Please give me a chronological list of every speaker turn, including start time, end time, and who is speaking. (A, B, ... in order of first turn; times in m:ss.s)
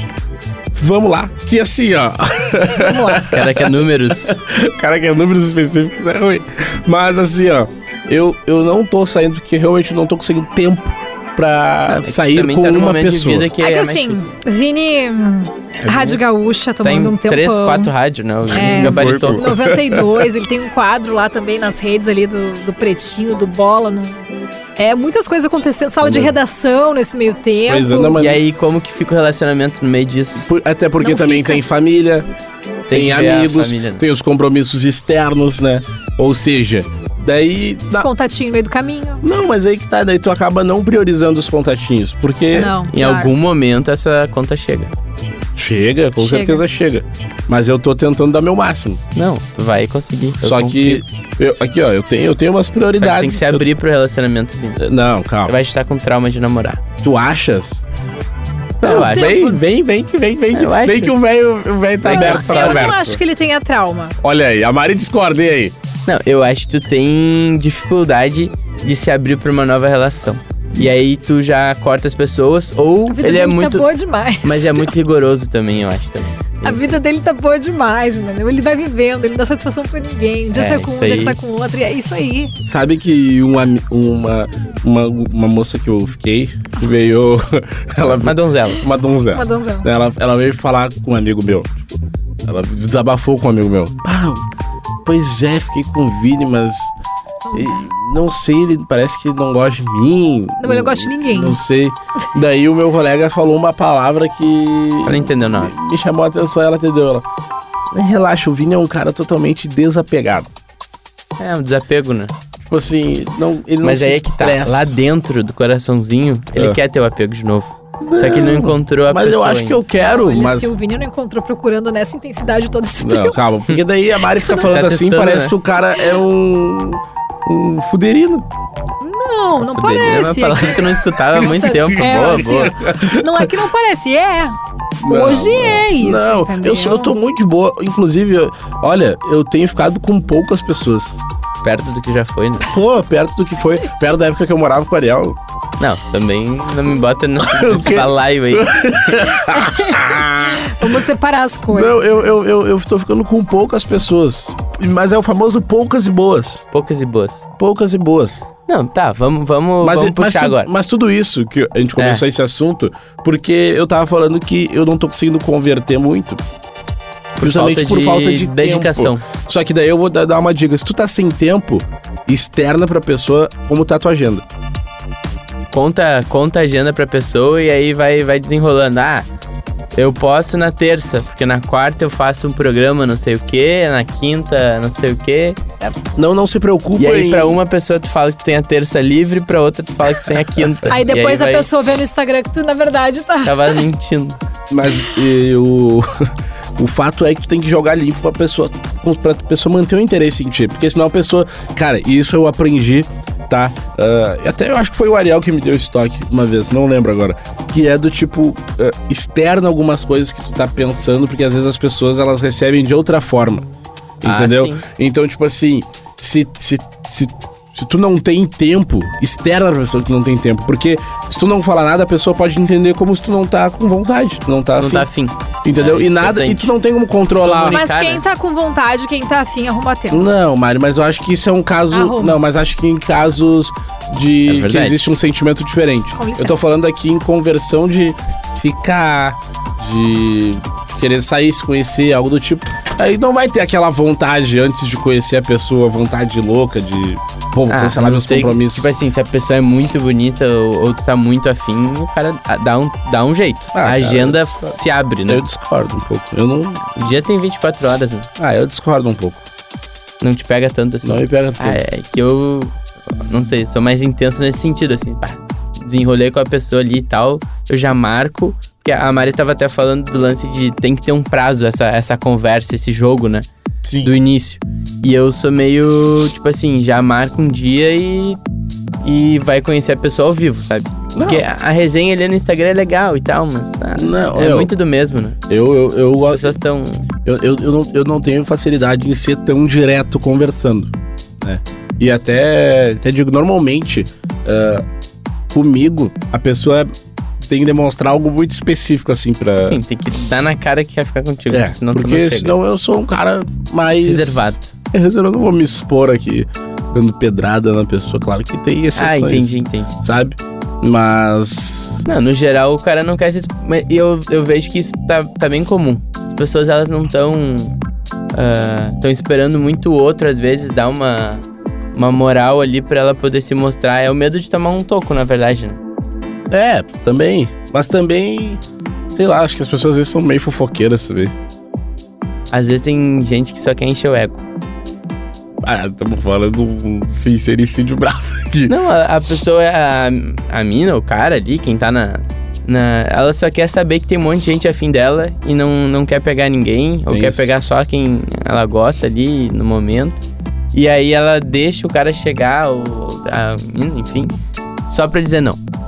0:00.7-0:13.5 A
0:03.0-0:04.4 B
0:11.9-0:14.3 B
0:13.6-0:17.9 C
0:15.8-0:16.2 B
0:16.8-0:19.4 B
0:18.5-0:24.2 C
0:18.5-0:20.3 A
0:24.8-0:28.2 C
0:26.0-0:26.4 A
0:27.7-0:28.4 A
0:28.2-0:30.5 B
0:30.5-0:32.3 A
0:31.0-0:31.6 C
0:32.9-0:38.1 A
0:32.9-0:34.0 B
0:37.9-0:39.2 C
0:39.2-0:42.8 A
0:42.5-0:43.3 C
0:42.9-0:44.9 B
0:45.6-0:49.0 A
0:46.2-0:46.6 C
0:49.2-0:51.0 B
0:50.4-0:53.6 A
0:53.0-0:54.8 B
0:54.8-0:55.6 A
0:55.4-0:56.8 B
0:57.0-0:57.8 A
0:58.8-0:59.6 B
0:58.8-1:03.2 A
0:58.8-0:59.6 C
1:00.5-1:01.2 B
1:02.0-1:03.0 B
1:02.1-1:04.2 C
1:04.2-1:05.7 A
1:06.1-1:13.9 B
1:13.1-1:14.9 C
1:14.4-1:17.0 B
1:16.6-1:22.5 C
1:20.5-1:21.4 B
1:22.7-1:31.8 A
1:28.0-1:28.8 B
1:29.3-1:29.9 C
1:32.5-1:34.4 A
1:35.0-1:36.9 A
1:37.5-1:37.8 C
1:37.5-1:47.2 A
1:40.6-1:41.6 C
1:45.0-1:45.7 B
1:47.9-1:50.5 A
1:51.4-1:52.3 B
1:52.6-1:55.0 A
1:53.8-1:59.8 B
1:58.0-2:00.8 A
2:00.0-2:03.4 C
2:03.0-2:08.5 A
2:04.4-2:05.6 B
2:09.0-2:17.1 C
2:09.6-2:12.8 B
2:11.5-2:13.5 A
2:15.0-2:21.2 A
2:21.6-2:22.7 B
2:22.7-2:25.4 A
2:25.8-2:29.4 B
2:27.4-2:31.1 A
2:29.5-2:30.0 C
2:30.6-2:32.0 C
2:31.7-2:36.6 A
2:36.7-2:37.4 B
2:37.6-2:38.4 A
2:38.7-2:40.7 B
2:39.8-2:46.4 A
2:42.0-2:42.2 B
2:47.4-2:49.2 B
2:47.4-2:54.4 A
2:55.7-2:59.3 B
3:00.0-3:05.6 B
3:05.8-3:07.6 A
3:07.0-3:11.7 B
3:10.9-3:13.8 C
3:13.4-3:14.4 B
3:14.7-3:33.7 A
3:34.2-3:45.1 A
3:34.2-3:34.8 B
3:44.8-3:46.7 B
3:45.6-3:47.8 A
3:47.3-3:48.2 B
3:47.7-3:50.2 C
3:50.1-4:08.9 A
3:51.9-3:52.4 C
3:54.5-3:55.0 B
3:56.2-3:56.7 C
4:07.7-4:15.4 B
4:13.7-4:17.0 A
4:17.0-4:18.3 B
4:18.4-4:19.4 A
4:20.2-4:22.8 B
4:21.0-4:21.8 A
4:23.3-4:33.5 B
4:33.8-4:34.1 A
4:34.0-4:38.4 B
4:39.0-4:45.4 B
4:41.1-4:41.5 A
4:44.0-4:44.7 A
4:45.5-4:46.6 A
4:46.2-4:47.0 B
4:47.2-4:54.9 A
4:55.5-4:56.9 A
4:57.4-4:59.8 A
4:59.6-5:02.6 B
5:01.5-5:12.0 A
5:04.0-5:04.7 B
5:09.0-5:09.9 B
5:12.0-5:17.8 B
5:18.3-5:25.8 B
5:26.5-5:28.6 A
5:29.1-5:31.3 A
5:32.5-5:34.4 B
5:35.6-5:38.7 A
5:38.7-5:50.2 B
5:47.1-5:47.5 A
5:50.7-5:54.3 B
5:54.9-5:55.6 B